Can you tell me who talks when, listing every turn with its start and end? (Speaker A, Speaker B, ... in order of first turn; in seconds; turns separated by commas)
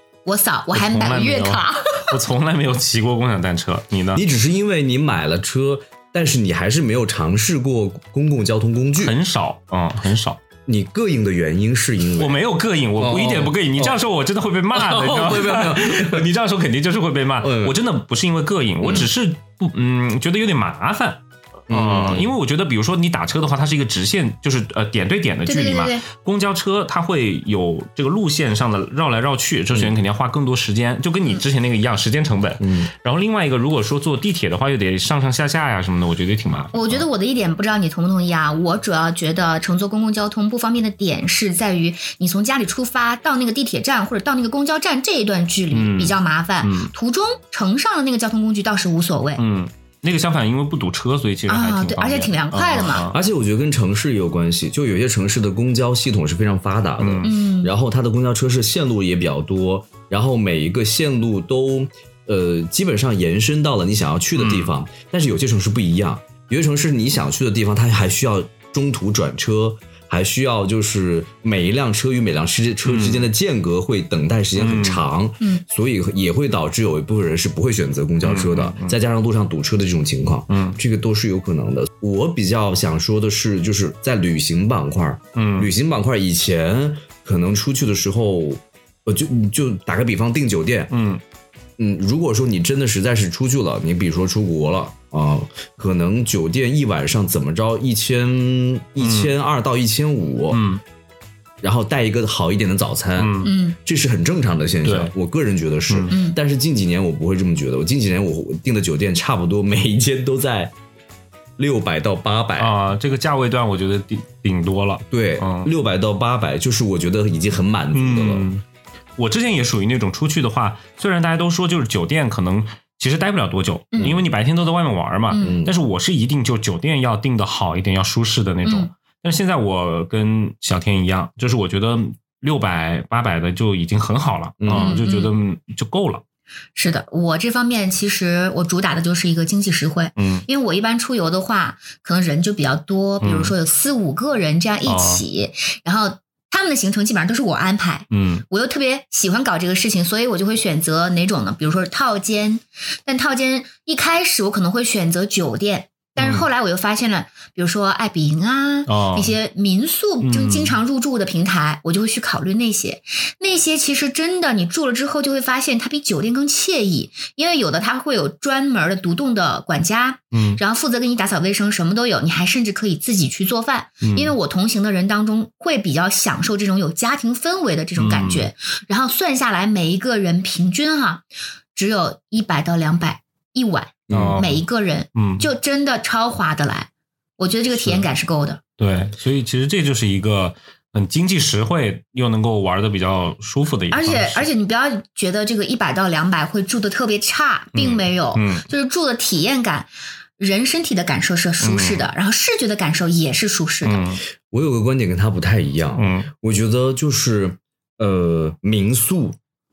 Speaker A: 0.3-2.1, Speaker B: 0.7-4.2, Speaker C: 4.2-9.2, Speaker B: 9.0-10.4, Speaker C: 10.7-12.4, Speaker B: 12.2-37.0, Speaker C: 13.0-14.0, Speaker C: 14.7-16.3, Speaker C: 17.4-17.8, Speaker C: 18.8-19.1, Speaker C: 21.7-22.3, Speaker A: 25.5-26.0, Speaker C: 32.6-32.9, Speaker A: 36.7-49.4, Speaker B: 45.7-46.9, Speaker B: 49.4-53.2, Speaker A: 51.5-53.0, Speaker C: 53.1-90.9, Speaker B: 57.0-57.3, Speaker A: 57.2-57.7, Speaker B: 64.4-64.7, Speaker B: 72.8-73.3, Speaker B: 74.6-75.0, Speaker B: 78.2-79.0, Speaker B: 80.5-80.8, Speaker B: 85.4-85.7, Speaker B: 90.9-91.2, Speaker C: 91.8-100.6, Speaker B: 99.0-99.3, Speaker B: 100.5-100.8, Speaker C: 101.6-110.7, Speaker B: 103.2-103.5, Speaker A: 103.4-103.8, Speaker B: 104.8-105.1, Speaker A: 106.1-106.4, Speaker C: 111.6-112.7, Speaker B: 112.6-115.7, Speaker C: 115.1-118.5, Speaker B: 117.9-118.6, Speaker B: 119.2-136.2, Speaker A: 123.9-124.2, Speaker A: 125.3-125.6, Speaker C: 125.4-125.8, Speaker A: 128.6-128.9, Speaker C: 134.6-135.0, Speaker A: 134.7-135.3, Speaker A: 136.8-188.6, Speaker B: 140.2-140.4, Speaker B: 143.2-143.5, Speaker B: 144.9-145.2, Speaker B: 148.1-148.4, Speaker B: 156.2-156.4, Speaker B: 158.9-159.3, Speaker B: 160.2-160.8, Speaker B: 170.3-170.6, Speaker B: 174.0-174.3, Speaker B: 178.0-178.5, Speaker C: 184.1-184.4, Speaker B: 184.1-184.6, Speaker B: 185.2-185.5, Speaker B: 187.8-188.1, Speaker B: 188.8-194.5, Speaker A: 193.9-204.1, Speaker B: 197.7-198.7, Speaker B: 201.6-202.1, Speaker B: 203.8-204.2, Speaker C: 204.5-209.4, Speaker B: 206.0-206.3